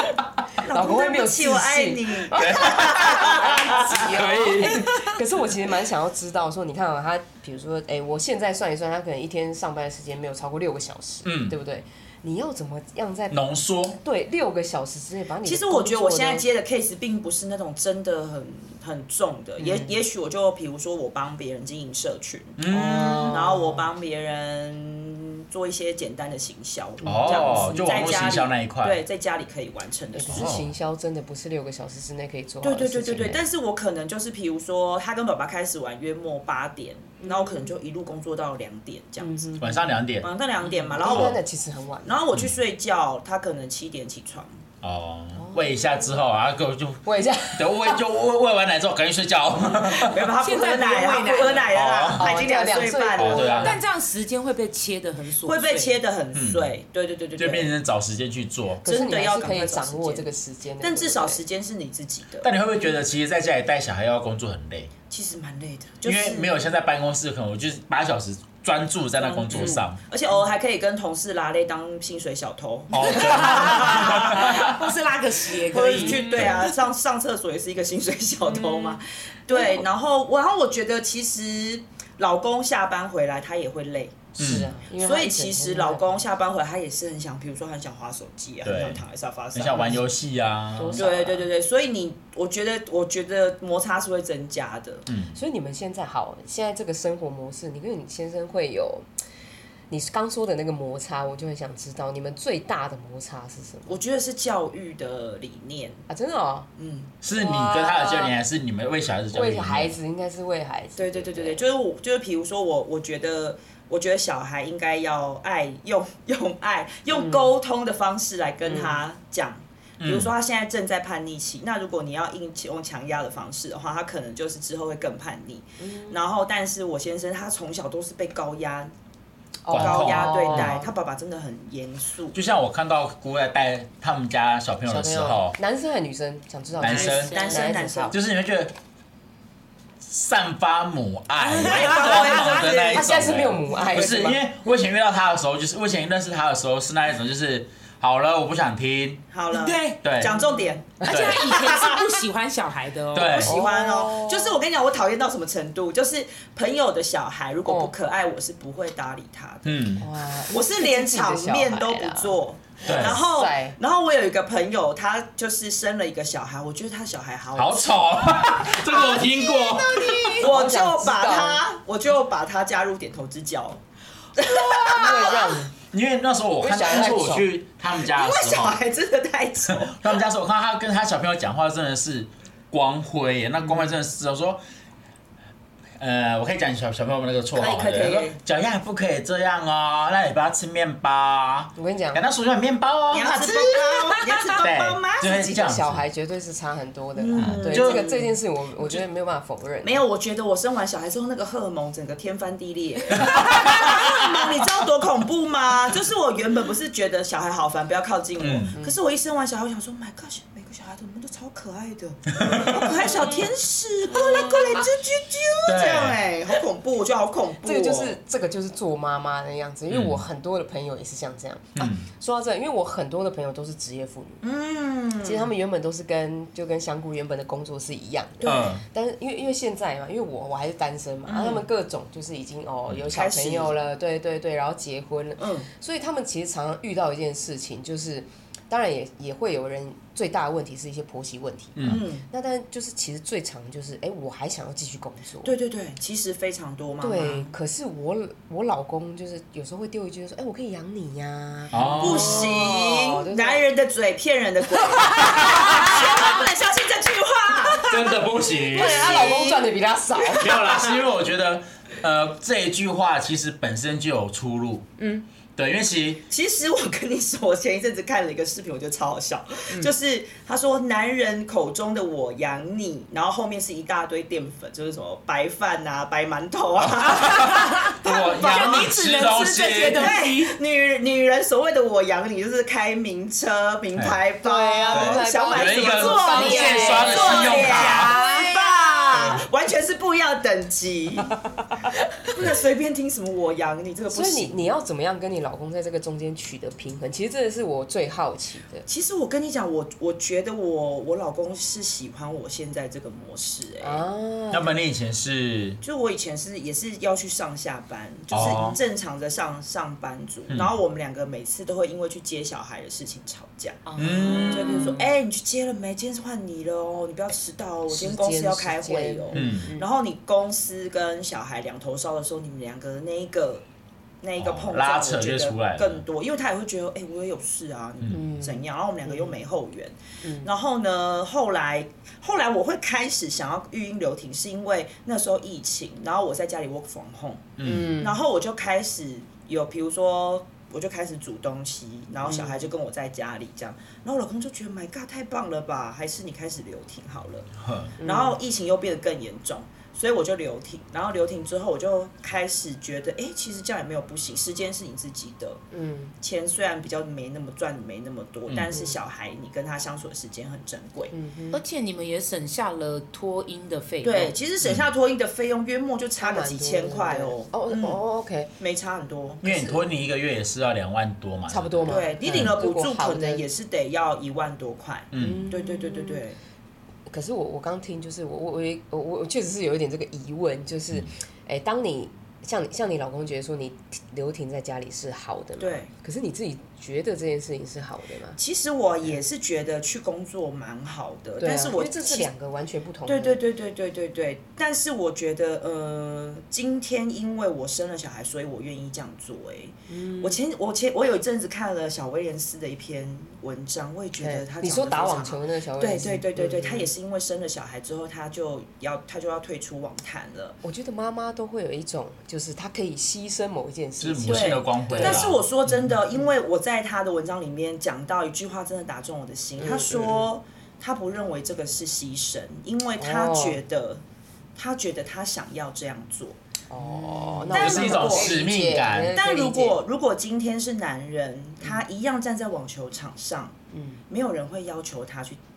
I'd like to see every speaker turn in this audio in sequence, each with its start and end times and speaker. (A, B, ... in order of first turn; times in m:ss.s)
0:00.6-0:04.0 A
0:00.7-0:13.4 B
0:02.4-0:05.1 C
0:11.2-0:11.6 C
0:13.3-0:14.0 C
0:14.0-0:16.4 B
0:15.4-0:30.6 A
0:19.6-0:19.9 B
0:22.6-0:23.4 C
0:22.7-0:23.8 B
0:27.0-0:28.1 B
0:27.0-0:29.0 C
0:30.1-0:33.4 B
0:30.3-0:30.7 C
0:32.6-0:39.6 A
0:37.2-0:37.7 B
0:39.2-0:39.8 B
0:39.6-0:40.3 C
0:40.2-0:41.4 A
0:40.6-0:41.0 D
0:41.0-0:42.2 B
0:42.0-0:44.6 A
0:44.8-0:50.3 C
0:45.4-0:46.0 B
0:47.0-0:48.0 B
0:49.9-0:53.7 A
0:50.3-0:51.8 D
0:51.7-0:52.4 C
0:52.2-0:53.8 B
0:53.2-0:53.8 C
0:53.6-0:56.0 D
0:55.4-0:57.7 A
0:56.3-0:56.7 C
0:57.4-0:58.8 C
0:58.8-1:01.4 B
0:58.8-1:02.5 A
1:02.4-1:04.9 C
1:05.1-1:06.6 A
1:06.0-1:10.0 C
1:09.2-1:14.8 A
1:09.5-1:09.8 D
1:12.9-1:14.8 C
1:12.9-1:16.7 D
1:15.6-1:30.0 A
1:16.2-1:16.7 C
1:18.4-1:19.0 D
1:24.4-1:24.7 C
1:24.4-1:26.2 B
1:28.6-1:31.0 C
1:30.7-1:31.4 B
1:30.9-1:35.0 A
1:35.1-1:35.4 C
1:35.3-1:39.0 B
1:39.9-1:44.0 B
1:43.9-1:46.0 A
1:46.1-1:46.7 B
1:46.8-1:47.1 A
1:47.2-1:49.9 C
1:47.3-1:48.3 B
1:49.3-1:51.6 B
1:51.0-2:08.9 A
1:57.1-1:57.5 B
1:58.6-1:59.0 B
2:00.0-2:00.3 C
2:05.8-2:06.2 B
2:09.6-2:10.9 B
2:09.7-2:10.8 C
2:09.7-2:12.4 A
2:12.3-2:15.6 C
2:14.8-2:18.1 B
2:16.8-2:17.4 C
2:16.8-2:17.8 D
2:17.0-2:18.2 A
2:18.1-2:18.7 C
2:20.0-2:29.2 C
2:21.4-2:23.1 A
2:21.7-2:22.7 D
2:22.8-2:24.4 B
2:23.8-2:24.4 A
2:29.3-2:32.1 A
2:29.5-2:30.0 D
2:30.0-2:30.4 C
2:31.0-2:31.9 B
2:31.0-2:31.6 C
2:31.0-2:33.4 D
2:33.1-2:33.6 C
2:33.2-2:39.9 A
2:33.4-2:34.6 B
2:37.6-2:37.9 B
2:39.6-2:40.0 C
2:40.0-2:43.8 B
2:40.5-2:49.2 A
2:42.8-2:43.2 C
2:47.6-2:50.4 C
2:48.9-2:50.4 D
2:50.3-2:51.6 B
2:50.4-2:53.8 A
2:54.4-2:55.6 A
2:54.8-2:55.2 D
2:54.8-2:55.7 B
2:55.9-2:58.8 C
2:56.6-2:57.5 B
2:58.0-3:00.2 A
2:59.7-3:04.6 C
3:06.0-3:16.0 C
3:07.5-3:08.4 A
3:11.8-3:12.2 B
3:13.1-3:15.4 A
3:15.2-3:20.0 B
3:17.2-3:19.0 A
3:17.4-3:18.1 C
3:19.8-3:38.2 A
3:23.1-3:24.1 C
3:28.4-3:28.7 C
3:32.3-3:32.9 C
3:33.1-3:33.4 B
3:34.2-3:34.6 B
3:35.6-3:36.2 C
3:37.6-3:44.4 B
3:39.9-3:40.2 C
3:41.8-3:42.1 C
3:44.4-3:45.5 A
3:45.2-4:05.5 B
3:48.4-3:48.8 A
3:48.4-3:48.8 C
3:51.3-3:51.6 A
3:53.1-3:53.7 A
3:55.4-3:55.7 A
4:01.8-4:02.0 C
4:01.8-4:02.2 A
4:05.4-4:07.5 A
4:07.0-4:13.6 B
4:11.7-4:12.5 C
4:12.0-4:19.6 A
4:14.7-4:16.2 B
4:17.8-4:19.4 C
4:18.7-4:20.7 B
4:20.3-4:24.9 C
4:25.6-4:26.2 C
4:26.3-4:38.9 A
4:36.8-4:40.2 C
4:37.3-4:40.6 D
4:39.9-4:51.4 A
4:44.4-4:47.6 B
4:44.9-4:48.1 C
4:46.0-4:49.2 D
4:49.1-4:49.4 C
4:52.3-4:54.7 A
4:54.1-4:58.8 B
4:58.9-5:04.0 A
5:03.8-5:04.7 B
5:04.5-5:05.8 C
5:05.8-5:23.6 A
5:08.3-5:08.8 C
5:08.4-5:08.8 B
5:13.8-5:15.0 D
5:14.0-5:14.9 C
5:17.9-5:19.8 B
5:19.3-5:19.7 C
5:24.2-5:55.6 A
5:24.4-5:26.0 C
5:28.1-5:29.4 B
5:30.2-5:30.5 B
5:37.6-5:37.9 C
5:37.6-5:38.2 B
5:42.2-5:42.6 B
5:47.6-5:47.9 C
5:48.0-5:48.4 B
5:55.7-5:56.1 B
5:56.2-6:01.1 A
5:58.5-5:58.7 C
6:01.1-6:01.6 B
6:01.5-6:04.3 D
6:04.0-6:08.0 A
6:06.2-6:08.5 B
6:08.6-6:09.5 A
6:09.4-6:12.5 C
6:09.4-6:09.8 B
6:11.5-6:13.4 B
6:11.9-6:16.4 A
6:15.1-6:15.4 C
6:15.2-6:16.2 B
6:17.1-6:28.4 B
6:25.6-6:25.9 A
6:28.4-6:32.3 A
6:31.4-6:33.4 B
6:33.0-6:50.6 A
6:39.9-6:40.4 B
6:44.2-6:46.9 B
6:50.6-6:55.2 B
6:54.0-6:55.4 C
6:54.2-7:04.0 A
6:59.6-7:00.2 B
7:03.0-7:03.6 B
7:04.6-7:06.4 A
7:06.7-7:09.8 B
7:07.4-7:08.4 A
7:07.5-7:09.2 C
7:09.1-7:13.5 A
7:13.7-7:14.0 B
7:14.1-7:15.4 A